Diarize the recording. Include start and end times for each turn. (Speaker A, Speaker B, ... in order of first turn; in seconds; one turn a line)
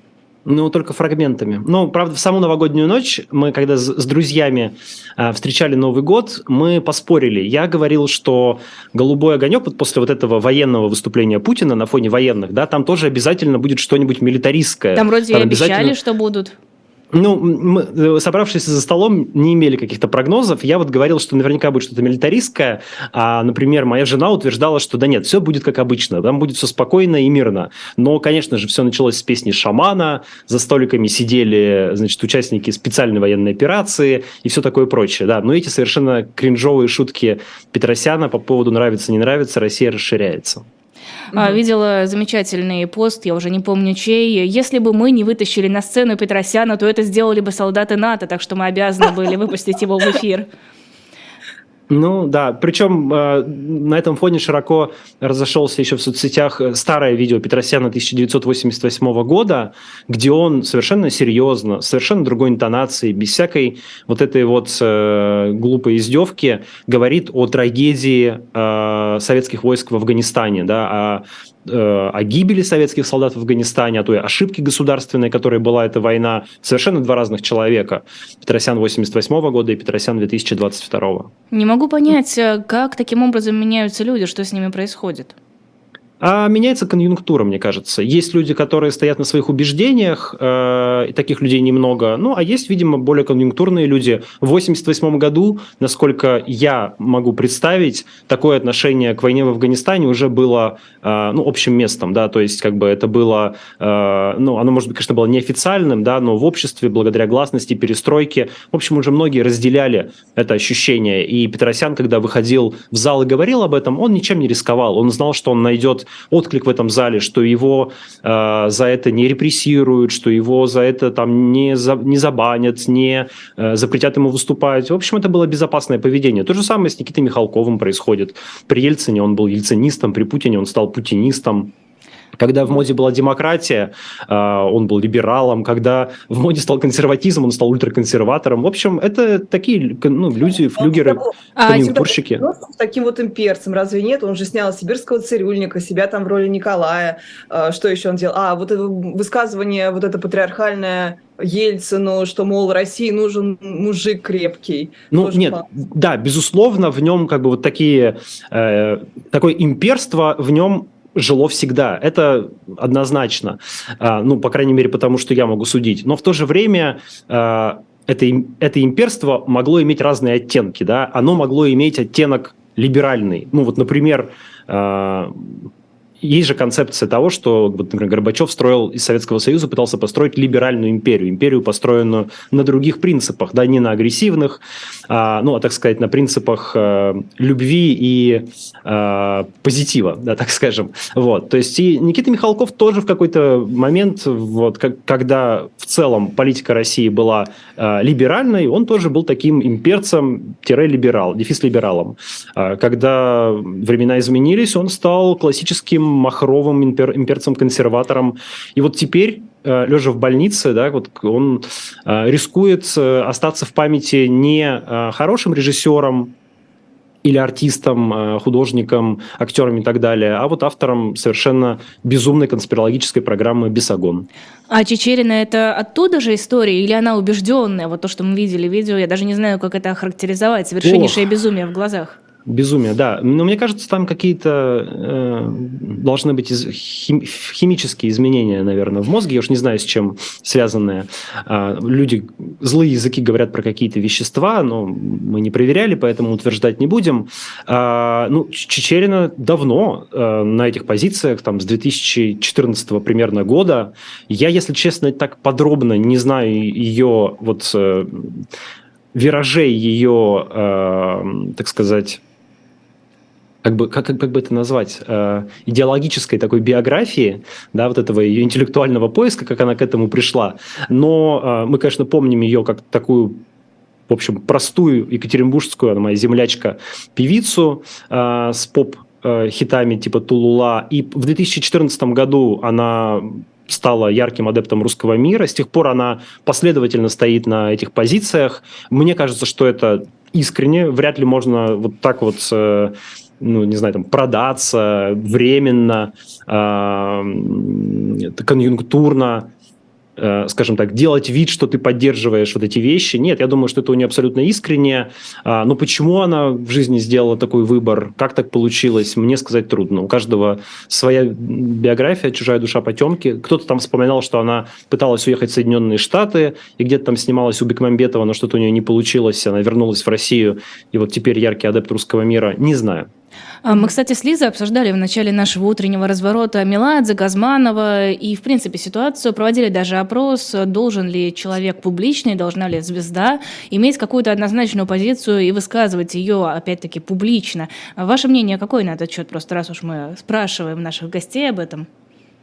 Speaker A: 0.5-15.9
Speaker B: 14.9-16.5
Speaker A: 17.1-40.6
Speaker B: 41.3-50.5
Speaker C: 41.3-41.6
Speaker A: 51.9-81.3
Speaker B: 81.5-85.3
Speaker A: 86.2-131.7
Speaker A: 132.4-142.5
Speaker C: 140.8-155.6
Speaker B: 141.6-141.9
Speaker A: 155.1-175.7
Speaker A: 176.2-216.3
Speaker A: 217.2-224.3
Speaker B: 224.7-232.2
Speaker A: 230.8-231.2
Speaker A: 232.4-258.4
Speaker A: 259.1-262.2
Speaker A: 263.6-273.4
Speaker A: 274.1-299.5
Speaker A: 300.2-323.1
Speaker B: 323.6-341.9